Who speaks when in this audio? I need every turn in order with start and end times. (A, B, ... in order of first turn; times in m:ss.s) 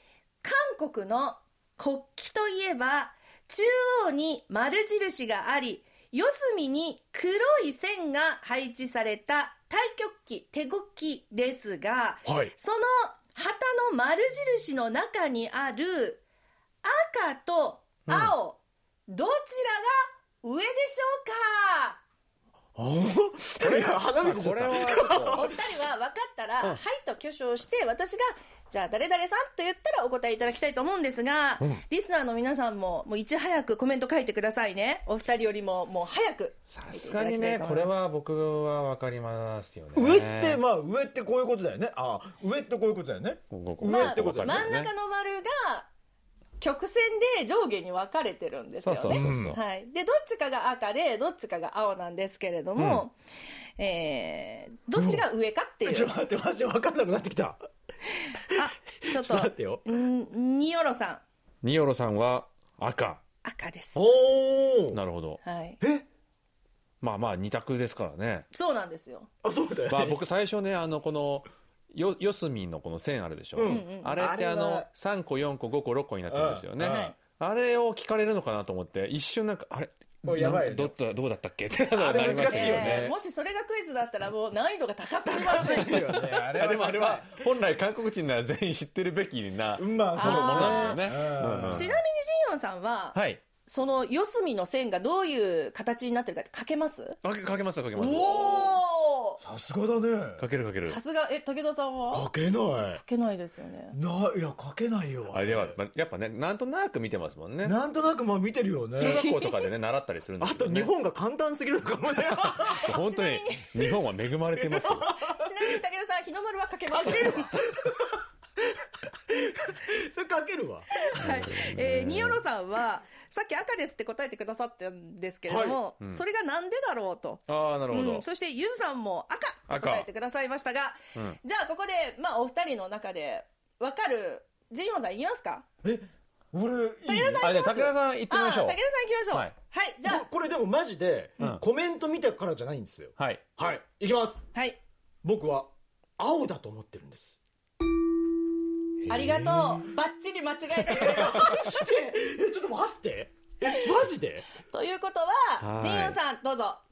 0:00.4-0:16.2 A
0:12.2-0:12.5 B
0:16.8-0:22.0 A
0:18.1-0:18.3 C
0:22.8-0:25.6 B
0:23.6-0:25.5 C
0:25.3-0:38.0 A
0:36.7-0:40.6 C
0:39.9-0:44.7 B
0:43.5-0:44.9 C
0:43.8-0:45.9 A
0:46.6-0:53.1 A
0:48.8-0:49.6 C
0:49.1-0:49.6 B
0:52.8-0:53.0 C
0:53.8-0:56.1 A
0:54.9-0:55.2 B
0:55.8-0:57.6 B
0:58.2-1:01.2 A
0:58.5-0:59.8 B
1:01.6-1:03.2 C
1:03.4-1:04.0 A
1:03.9-1:05.0 B
1:04.9-1:05.4 C
1:05.4-1:05.8 A
1:05.8-1:06.0 B
1:07.0-1:08.5 C
1:08.5-1:09.3 A
1:09.4-1:10.2 B
1:09.9-1:23.1 C
1:13.6-1:14.9 B
1:13.6-1:14.1 A
1:16.3-1:17.1 B
1:16.8-1:17.1 A
1:20.2-1:20.9 B
1:22.0-1:23.1 B
1:22.0-1:26.2 A
1:25.2-1:27.4 B
1:26.2-1:31.9 C
1:29.8-1:31.9 B
1:30.1-1:31.1 A
1:31.6-1:37.2 A
1:33.1-1:33.4 C
1:37.2-1:38.7 C
1:37.9-1:39.4 A
1:39.4-1:40.4 B
1:40.4-1:41.0 C
1:40.8-1:42.3 A
1:42.1-1:43.0 B
1:43.0-1:44.0 A
1:43.9-1:45.8 B
1:45.3-1:47.8 C
1:47.6-1:49.2 B
1:49.0-1:50.9 C
1:49.0-1:49.6 A
1:50.4-1:52.9 B
1:52.4-1:55.2 C
1:52.6-1:53.9 A
1:54.6-1:55.5 B
1:55.2-1:57.6 A
1:56.9-2:00.9 B
2:00.9-2:15.6 A
2:01.2-2:02.4 C
2:05.5-2:05.8 B
2:07.5-2:08.2 C
2:09.7-2:10.1 C
2:15.8-2:17.6 B
2:17.0-2:20.2 A
2:17.4-2:18.8 C
2:20.0-2:24.4 B
2:23.2-2:23.4 C
2:24.5-2:24.8 A
2:25.2-2:27.4 B
2:29.0-2:29.7 C
2:29.1-2:31.7 A
2:30.8-2:34.4 B
2:33.6-2:33.9 A
2:34.6-2:36.8 A
2:35.6-2:36.2 C